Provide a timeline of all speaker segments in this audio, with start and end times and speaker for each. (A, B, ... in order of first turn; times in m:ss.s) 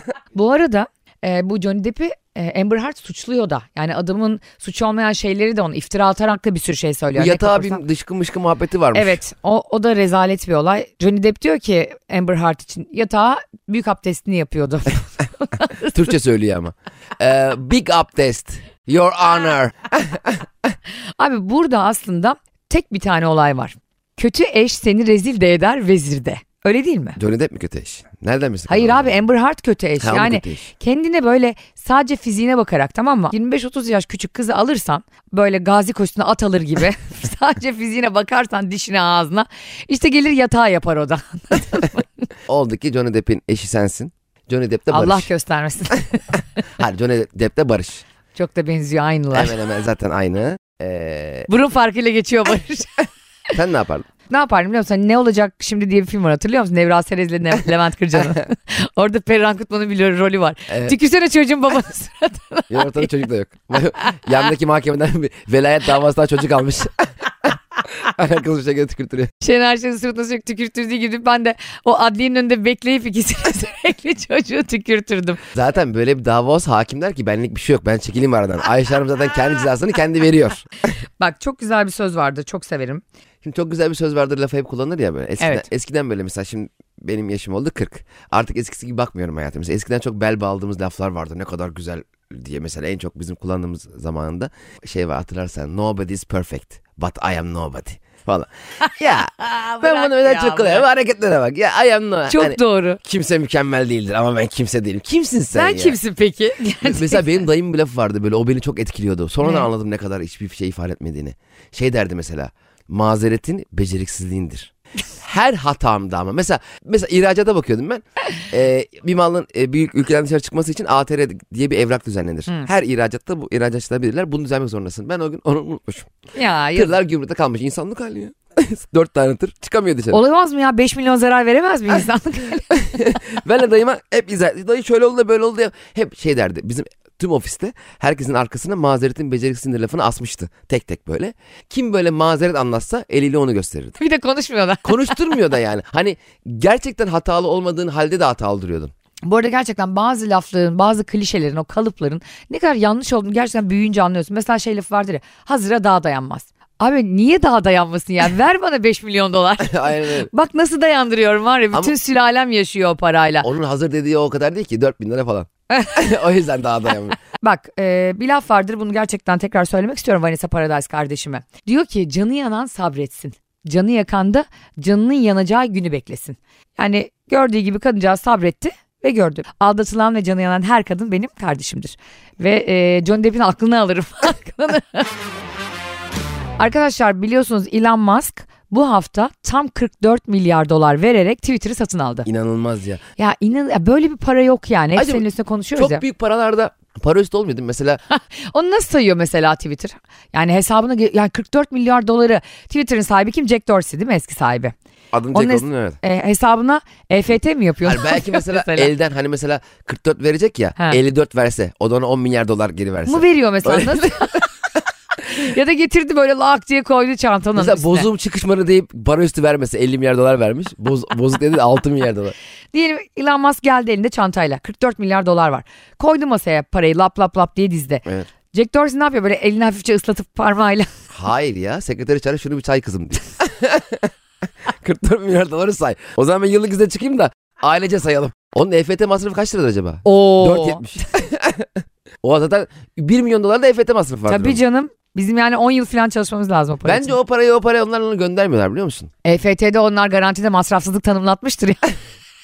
0:00.3-0:07.8 A
0:07.1-0:09.2 B
0:08.9-0:16.0 A
0:15.9-0:20.4 B
0:21.2-0:27.2 A
0:27.2-0:29.2 B
0:28.7-0:42.1 A
0:30.0-0:30.6 B
0:42.5-0:45.3 B
0:44.9-0:46.4 A
0:46.8-0:48.0 B
0:48.3-0:49.5 A
0:49.3-0:51.5 B
0:51.5-0:53.0 A
0:53.5-0:54.1 B
0:54.3-1:03.1 A
1:00.7-1:00.9 B
1:02.7-1:07.0 B
1:08.0-1:09.3 B
1:09.4-1:15.4 A
1:15.5-1:20.7 B
1:21.2-1:23.0 A
1:23.4-1:46.0 B
1:25.4-1:25.6 A
1:38.8-1:40.8 A
1:42.3-1:43.0 A
1:45.5-1:47.3 A
1:46.8-2:06.1 B
1:49.4-1:49.7 A
2:06.3-2:06.9 A
2:06.7-2:10.2 B
2:10.1-2:13.0 A
2:12.8-2:24.0 B
2:24.0-2:25.2 A
2:24.8-2:28.9 B
2:29.2-2:43.5 A
2:39.6-2:40.3 B
2:43.4-2:47.2 B
2:45.7-2:46.0 A
2:47.4-3:05.1 A
3:06.6-3:12.3 A
3:12.2-3:13.0 B
3:13.2-3:16.0 A
3:15.0-3:15.2 B
3:15.8-3:18.0 B
3:18.1-3:24.7 A
3:25.1-3:26.0 B
3:25.3-3:28.9 A
3:27.8-3:34.2 B
3:33.0-3:34.5 A
3:35.2-3:38.0 A
3:37.6-3:42.3 B
3:42.7-3:50.9 A
3:51.1-3:54.1 B
3:54.7-4:01.7 B
4:00.0-4:00.8 A
4:02.2-4:04.6 B
4:04.3-4:07.1 A
4:06.8-4:09.1 B
4:09.2-4:11.9 A